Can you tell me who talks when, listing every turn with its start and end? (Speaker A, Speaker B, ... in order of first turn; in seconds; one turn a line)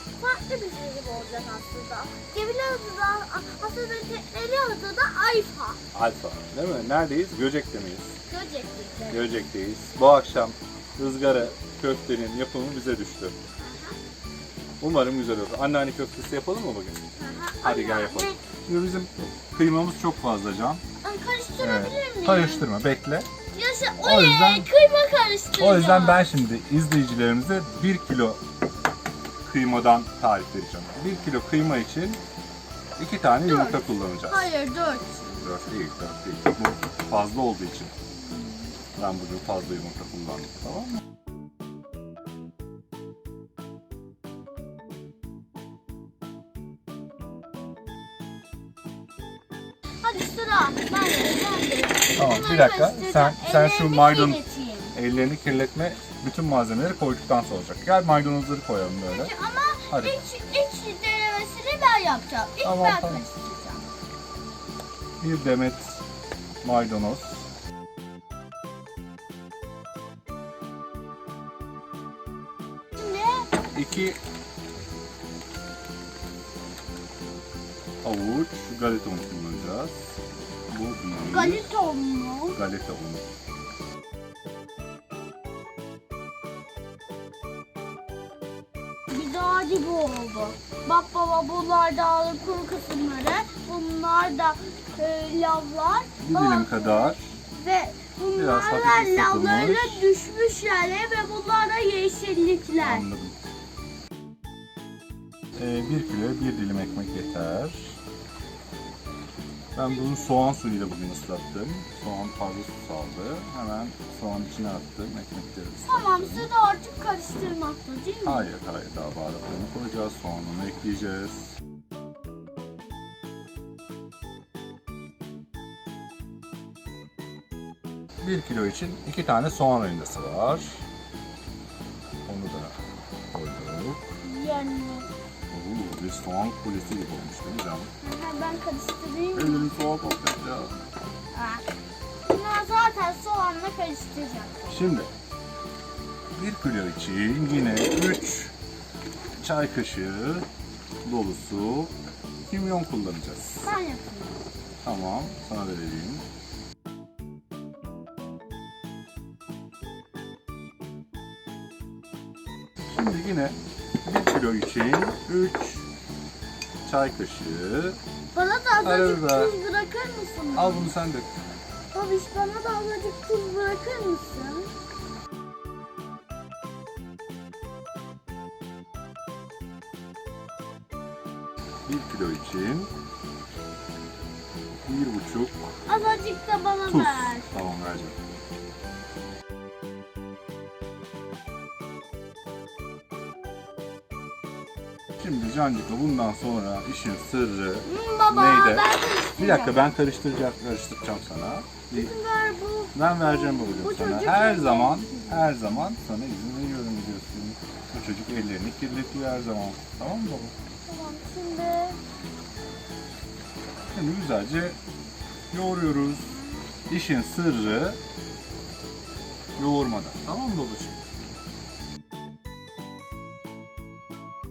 Speaker A: 0.2-5.8
Speaker B: 5.9-8.2
Speaker A: 8.3-9.3
Speaker B: 9.1-13.4
Speaker A: 13.6-14.0
Speaker B: 14.8-17.0
Speaker A: 17.2-18.4
Speaker B: 17.6-20.8
Speaker A: 21.0-22.7
Speaker B: 21.6-23.3
Speaker A: 23.5-26.4
Speaker B: 24.0-24.7
Speaker B: 25.6-28.4
Speaker B: 29.4-32.2
Speaker B: 33.0-34.5
Speaker A: 33.5-35.3
Speaker B: 35.3-37.9
Speaker A: 38.3-38.6
Speaker B: 39.0-41.0
Speaker A: 50.0-54.9
Speaker B: 52.2-54.4
Speaker B: 54.9-59.3
Speaker A: 59.1-63.8
Speaker B: 59.9-60.2
Speaker B: 62.6-63.2
Speaker B: 65.2-66.0
Speaker B: 66.6-67.5
Speaker A: 73.0-73.5
Speaker B: 73.7-74.2
Speaker B: 78.0-80.2
Speaker B: 80.7-81.8
Speaker A: 81.3-82.6
Speaker B: 82.5-83.3
Speaker A: 89.1-103.1
Speaker B: 96.2-97.4
Speaker B: 98.4-100.1
Speaker B: 102.8-103.5
Speaker B: 105.6-108.0
Speaker B: 109.8-116.5
Speaker A: 115.8-118.5
Speaker B: 118.2-121.6
Speaker B: 128.2-130.8
Speaker B: 132.3-132.8
Speaker B: 133.3-134.1
Speaker A: 134.2-135.1
Speaker B: 135.5-137.9
Speaker A: 138.0-139.7
Speaker B: 139.3-140.9
Speaker A: 141.3-141.6
Speaker A: 142.2-144.6
Speaker B: 144.7-145.1
Speaker B: 146.3-148.5
Speaker B: 149.4-150.5
Speaker B: 151.1-151.9
Speaker B: 152.5-153.7
Speaker A: 153.6-154.4
Speaker B: 154.8-156.3
Speaker B: 162.9-165.9
Speaker B: 166.8-168.0
Speaker A: 168.3-170.9
Speaker B: 168.8-169.6
Speaker B: 170.5-171.4
Speaker A: 171.9-174.7
Speaker B: 181.9-182.9
Speaker B: 184.9-185.7
Speaker A: 185.9-187.5
Speaker B: 186.9-188.2
Speaker B: 195.2-202.1
Speaker A: 197.8-199.8
Speaker A: 201.9-205.5
Speaker B: 202.9-210.5
Speaker A: 210.9-212.0
Speaker B: 213.9-214.8
Speaker B: 215.5-218.0
Speaker B: 219.6-221.0